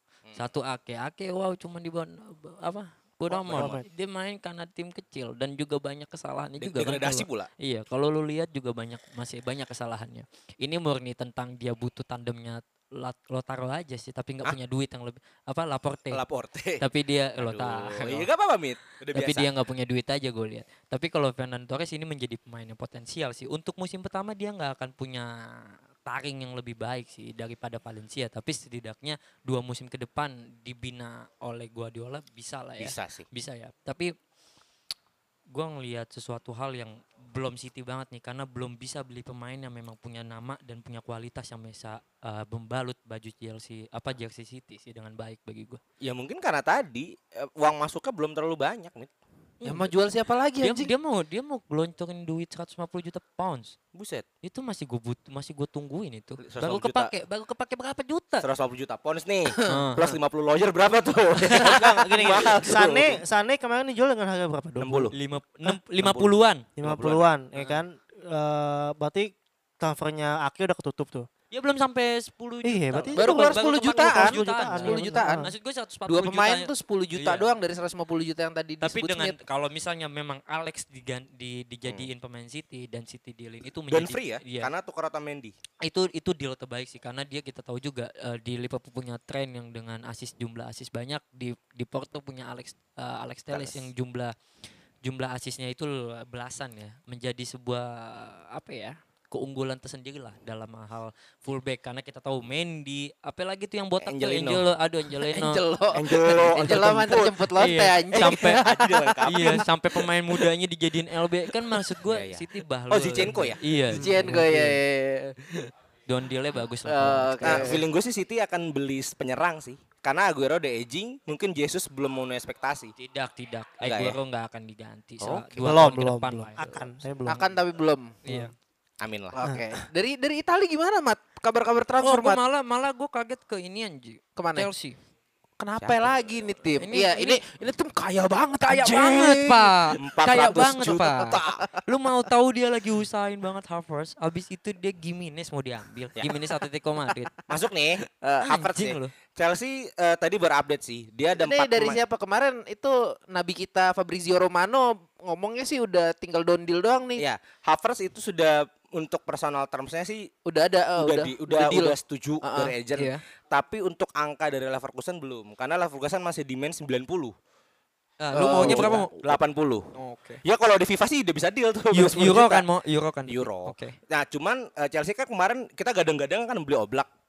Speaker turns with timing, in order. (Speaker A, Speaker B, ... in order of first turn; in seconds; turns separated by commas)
Speaker A: 0.3-16.2, Speaker B: 3.3-3.8, Speaker C: 3.5-3.9, Speaker B: 6.6-7.5, Speaker B: 16.1-16.8, Speaker A: 16.8-18.3, Speaker B: 17.4-19.5, Speaker A: 19.1-34.1, Speaker B: 32.8-33.2, Speaker A: 35.5-45.8, Speaker B: 46.0-49.1, Speaker A: 49.6-49.9, Speaker D: 49.6-50.9, Speaker A: 50.6-53.8, Speaker B: 53.9-54.2, Speaker A: 54.4-58.5, Speaker B: 56.4-57.1, Speaker B: 58.4-63.2, Speaker D: 59.5-59.8, Speaker A: 59.6-60.1, Speaker C: 61.6-65.1, Speaker B: 64.8-65.1, Speaker A: 65.1-66.7, Speaker B: 66.0-67.2, Speaker C: 66.8-71.3, Speaker A: 71.5-77.5, Speaker C: 72.6-75.5, Speaker D: 73.2-75.5, Speaker D: 76.1-79.4, Speaker A: 78.8-84.7, Speaker B: 83.9-85.5, Speaker A: 85.8-94.3, Speaker B: 93.5-93.8, Speaker A: 95.0-105.6, Speaker B: 104.0-104.6, Speaker D: 105.2-109.7, Speaker B: 105.9-107.5, Speaker A: 106.5-108.6, Speaker B: 108.1-109.7, Speaker A: 109.2-114.8, Speaker B: 112.0-113.6, Speaker D: 113.9-115.7, Speaker A: 116.1-117.8, Speaker D: 116.8-117.8, Speaker B: 117.4-122.9, Speaker A: 123.0-126.8, Speaker B: 123.8-124.2, Speaker C: 125.6-127.5, Speaker D: 127.2-128.2, Speaker A: 128.2-128.5, Speaker C: 128.2-128.5, Speaker B: 129.0-129.4, Speaker D: 129.3-132.4, Speaker C: 129.4-129.8, Speaker A: 132.0-135.0, Speaker D: 134.4-134.7, Speaker D: 135.6-141.8, Speaker B: 135.8-136.1, Speaker A: 136.8-137.4, Speaker A: 138.7-147.3, Speaker B: 140.0-141.6, Speaker B: 147.5-152.0, Speaker D: 148.2-148.5, Speaker A: 148.5-149.1, Speaker D: 151.3-157.2, Speaker B: 157.2-160.3, Speaker D: 160.4-162.8, Speaker B: 161.0-167.3, Speaker A: 168.2-169.1, Speaker D: 168.3-169.2, Speaker B: 168.4-169.9, Speaker A: 169.9-170.4, Speaker B: 170.4-172.7, Speaker A: 171.9-173.9, Speaker B: 173.3-177.1